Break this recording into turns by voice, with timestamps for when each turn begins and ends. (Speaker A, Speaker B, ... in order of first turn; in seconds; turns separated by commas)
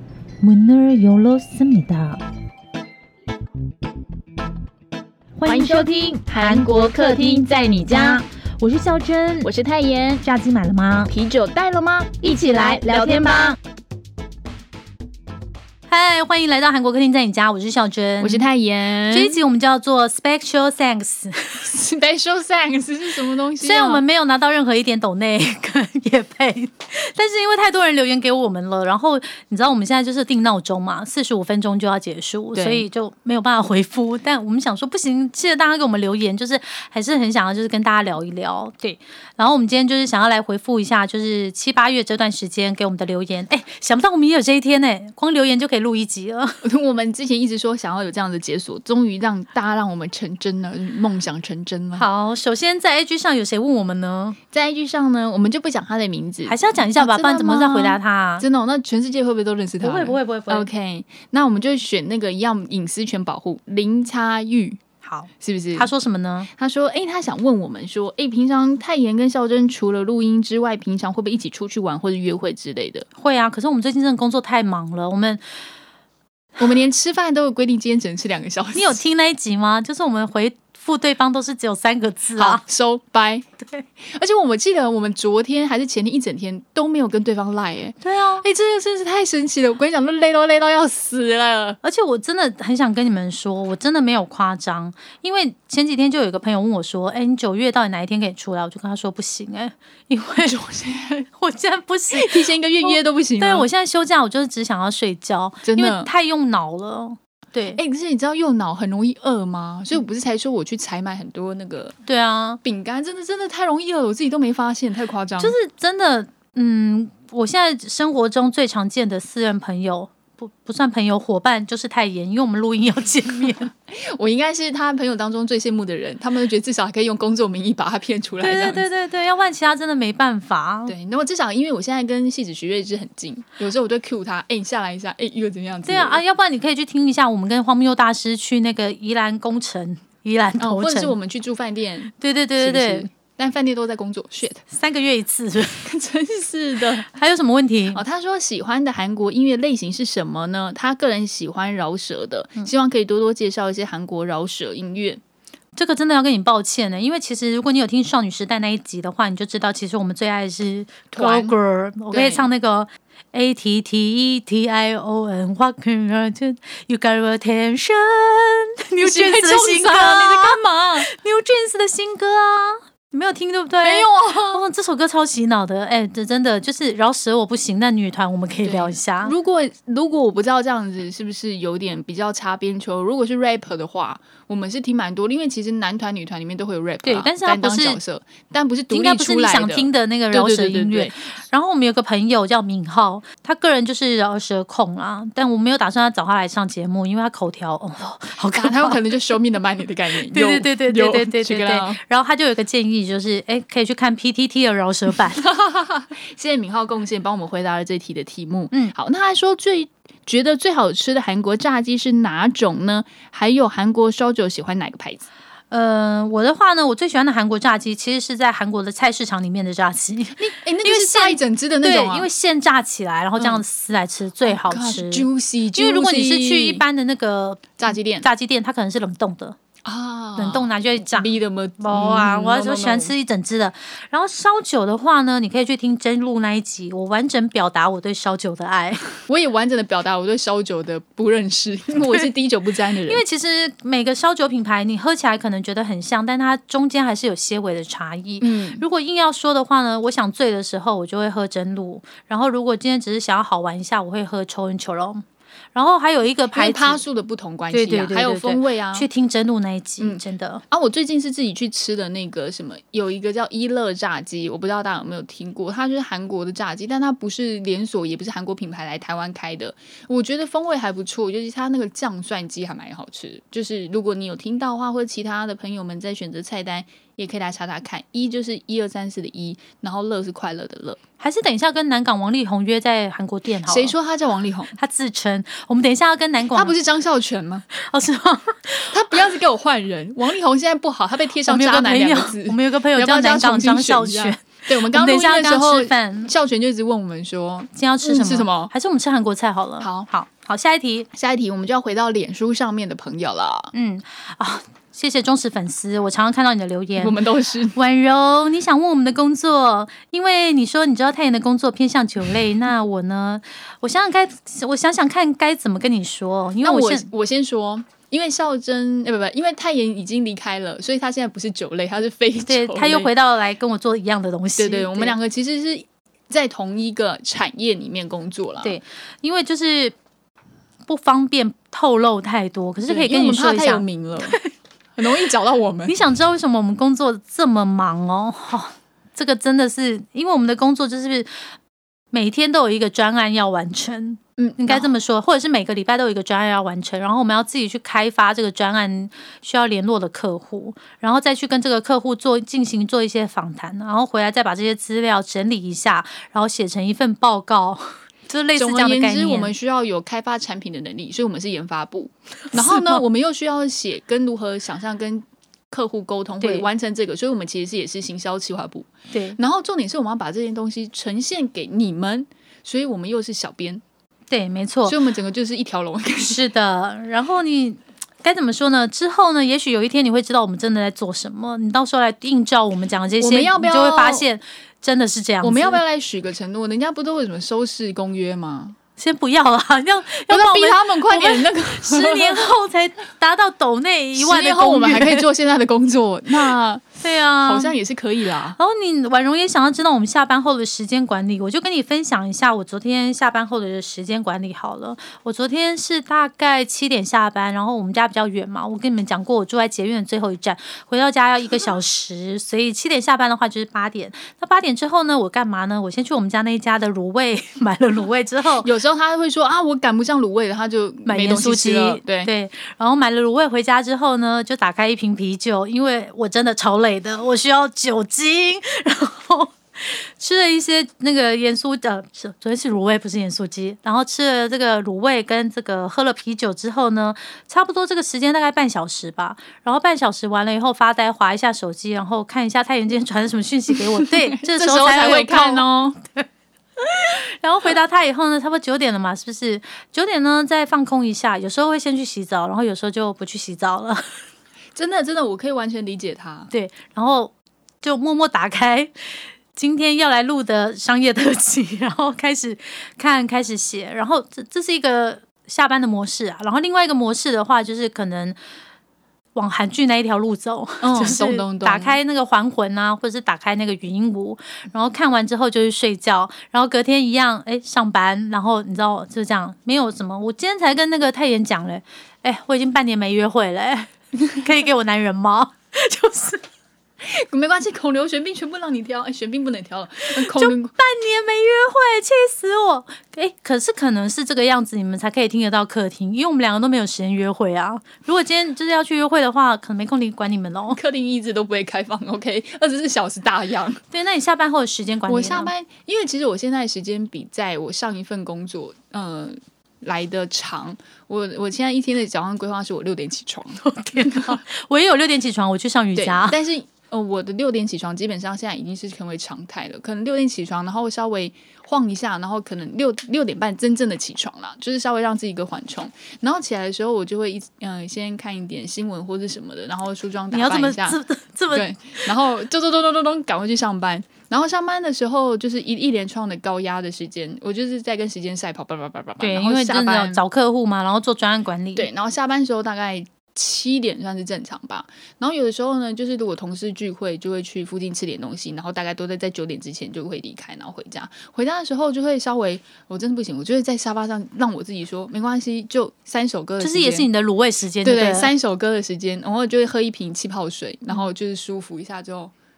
Speaker A: 0.4-2.2, Speaker A: 5.4-6.7, Speaker B: 5.4-8.2, Speaker A: 7.8-9.5, Speaker B: 9.4-10.2, Speaker A: 10.2-11.1, Speaker B: 11.1-13.6, Speaker A: 12.4-13.4, Speaker A: 15.9-18.4, Speaker B: 18.2-19.4, Speaker A: 19.1-21.7, Speaker B: 21.6-24.0, Speaker A: 23.6-46.6, Speaker B: 32.5-32.9, Speaker B: 46.6-52.1, Speaker A: 52.0-54.4, Speaker B: 54.5-64.8, Speaker A: 56.5-58.5, Speaker A: 59.8-60.7, Speaker A: 65.0-66.5, Speaker B: 65.4-65.9, Speaker B: 66.5-73.0, Speaker A: 73.2-75.4, Speaker B: 76.6-79.0, Speaker A: 78.7-82.6, Speaker B: 82.3-83.4, Speaker B: 84.0-91.8, Speaker A: 88.0-88.5, Speaker A: 91.8-100.6, Speaker B: 100.4-101.3, Speaker A: 101.3-107.8, Speaker B: 102.1-103.7, Speaker B: 105.6-106.1, Speaker B: 107.8-112.0, Speaker A: 112.0-112.6, Speaker B: 112.6-115.5, Speaker A: 115.4-123.7, Speaker B: 123.9-128.8, Speaker A: 128.4-130.9, Speaker B: 130.9-136.2, Speaker A: 135.8-141.1, Speaker B: 140.6-144.6, Speaker A: 142.2-143.1, Speaker A: 144.7-145.9, Speaker B: 145.8-147.1, Speaker A: 147.0-148.0, Speaker B: 147.9-155.2, Speaker A: 155.8-179.3, Speaker B: 161.1-161.5, Speaker B: 162.1-162.5, Speaker B: 169.0-171.1, Speaker B: 173.8-174.6, Speaker B: 178.6-191.2, Speaker A: 187.0-188.0, Speaker A: 188.9-199.0, Speaker B: 198.5-202.0, Speaker A: 200.3-205.4, Speaker B: 205.3-215.3, Speaker A: 215.7-229.6, Speaker B: 220.4-222.3, Speaker B: 223.4-223.6, Speaker B: 224.4-226.8, Speaker B: 227.8-228.3, Speaker B: 229.8-233.1, Speaker A: 230.4-239.1, Speaker B: 239.3-243.2, Speaker A: 243.1-257.0, Speaker B: 248.4-248.8, Speaker B: 256.5-259.1, Speaker A: 257.7-260.6, Speaker B: 260.0-281.0, Speaker A: 281.2-283.9, Speaker B: 283.6-284.7, Speaker A: 284.7-286.7, Speaker B: 286.5-287.7, Speaker A: 287.7-289.1, Speaker B: 288.9-298.7, Speaker A: 291.4-296.3, Speaker A: 297.7-301.1, Speaker B: 299.8-300.1, Speaker B: 301.1-303.7, Speaker A: 303.7-307.2, Speaker B: 307.0-307.8, Speaker A: 307.7-317.1, Speaker B: 316.6-323.1, Speaker A: 322.4-325.1, Speaker B: 324.6-328.8, Speaker A: 328.6-329.9, Speaker A: 330.9-334.4, Speaker B: 332.9-334.4, Speaker B: 334.9-335.9, Speaker A: 335.9-341.3, Speaker A: 342.1-359.5, Speaker B: 344.4-344.9, Speaker B: 358.6-373.8, Speaker A: 362.5-363.0, Speaker A: 366.4-366.7, Speaker A: 369.1-369.4, Speaker A: 374.3-375.0, Speaker B: 374.8-376.4, Speaker A: 376.2-385.8, Speaker B: 383.2-384.3, Speaker B: 385.4-388.8, Speaker A: 389.0-395.2, Speaker B: 390.3-392.5, Speaker B: 394.1-398.6, Speaker A: 397.0-397.7, Speaker A: 398.6-418.7, Speaker B: 418.6-422.3, Speaker A: 421.1-445.6, Speaker B: 443.7-446.0, Speaker A: 446.8-454.1, Speaker B: 454.7-456.5, Speaker A: 456.5-468.4, Speaker A: 469.3-486.4, Speaker B: 470.8-472.0, Speaker B: 487.0-490.7, Speaker A: 490.1-500.8, Speaker B: 500.7-503.8, Speaker A: 503.9-505.5, Speaker B: 505.1-514.4, Speaker A: 513.6-516.4, Speaker B: 516.0-531.0, Speaker A: 530.3-532.0, Speaker B: 531.5-540.2, Speaker A: 539.2-541.9, Speaker B: 541.8-557.1, Speaker A: 556.6-558.3, Speaker B: 557.8-562.3